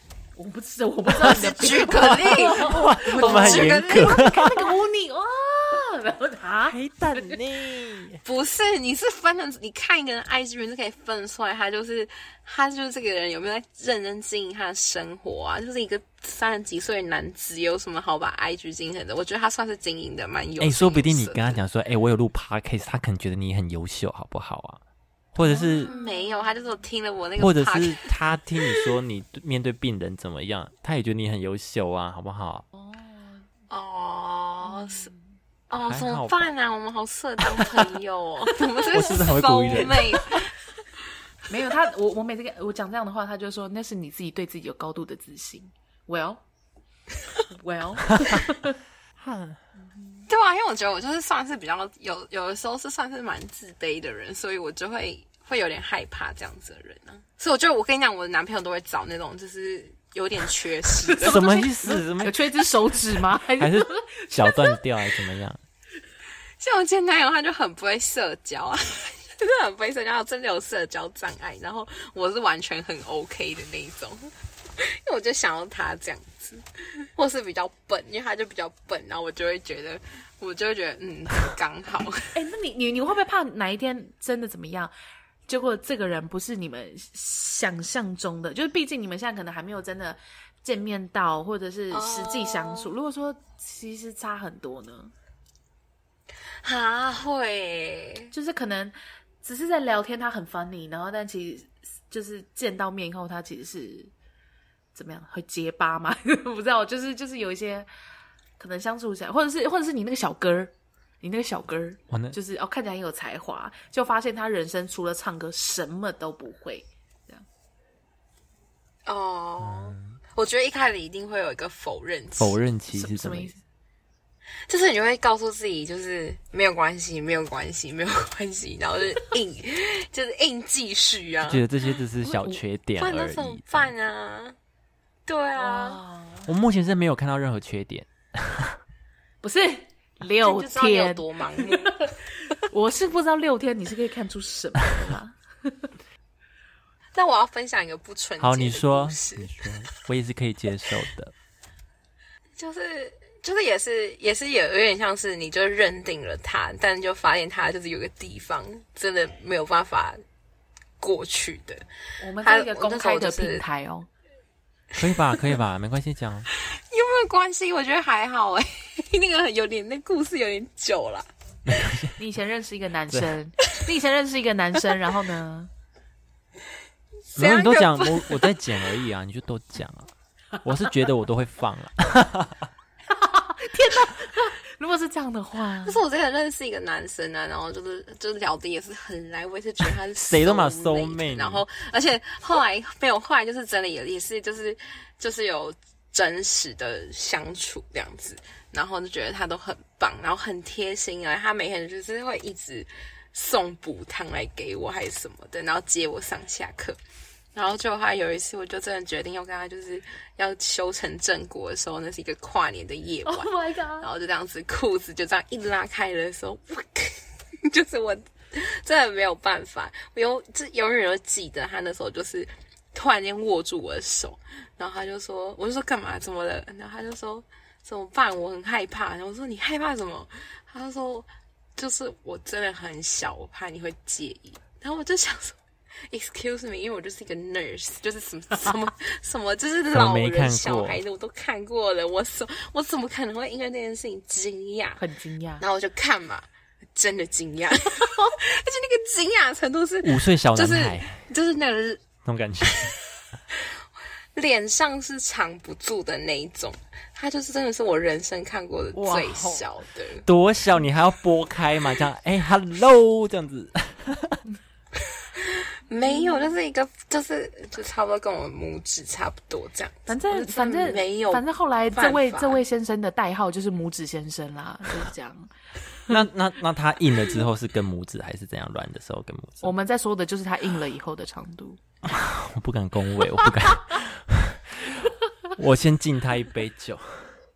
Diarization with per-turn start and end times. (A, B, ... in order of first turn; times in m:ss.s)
0:00.4-0:07.4 A
0:01.2-0:04.3 B
0:02.0-0:04.6 C
0:06.7-0:08.2 C
0:08.2-0:21.6 B
0:20.6-0:24.8 C
0:25.3-0:25.9 C
0:25.4-0:26.2 A
0:25.8-0:28.1 B
0:27.4-0:32.6 C
0:32.7-0:33.5 A
0:33.7-0:35.1 B
0:34.6-0:35.2 A
0:35.7-0:40.5 B
0:35.8-0:36.5 C
0:38.9-0:40.1 C
0:41.5-0:46.4 A
0:47.5-0:48.8 A
0:48.2-0:48.4 C
0:49.2-0:49.6 C
0:50.0-0:50.2 A
0:50.3-1:01.5 B
1:01.0-1:04.8 A
1:01.2-1:05.6 C
1:06.6-1:22.3 B
1:22.3-1:24.9 A
1:25.5-1:35.1 A
1:31.9-1:32.9 B
1:36.6-1:38.3 B
1:38.3-1:44.1 A
1:45.0-1:47.9 A
1:48.6-1:57.5 A
1:52.1-1:52.4 C
1:59.1-2:02.6 B
1:59.6-2:00.2 C
2:02.4-2:03.5 C
2:02.9-2:03.6 A
2:04.7-2:11.7 B
2:11.5-2:13.9 C
2:12.2-2:12.6 A
2:13.0-2:14.6 B
2:15.3-2:16.0 B
2:15.6-2:16.5 A
2:16.5-2:18.8 C
2:19.4-2:25.9 A
2:20.4-2:22.1 B
2:27.2-2:29.7 B
2:28.4-2:31.3 C
2:32.6-2:40.2 B
2:41.0-2:41.8 B
2:42.2-2:44.1 A
2:42.4-2:43.6 B
2:45.0-2:46.5 C
2:46.6-2:51.3 B
2:51.7-2:52.2 C
2:52.2-2:55.7 A
2:53.1-2:53.4 C
2:57.3-2:58.6 B
2:57.4-3:00.1 C
3:00.6-3:02.7 C
3:03.1-3:06.0 A
3:05.8-3:27.0 B
3:10.2-3:11.6 C
3:27.6-3:55.6 B
3:33.3-3:34.1 A
3:56.1-4:05.0 B
3:59.9-4:01.0 C
4:05.0-4:05.6 A
4:05.6-4:12.0 B
4:10.0-4:11.2 C
4:12.2-4:12.9 C
4:12.6-4:13.7 B
4:14.4-4:20.3 B
4:19.0-4:19.6 A
4:20.2-4:24.4 C
4:25.3-4:32.6 B
4:26.0-4:26.5 A
4:30.1-4:35.5 A
4:36.1-4:39.7 C
4:39.6-4:41.8 A
4:42.0-4:47.4 C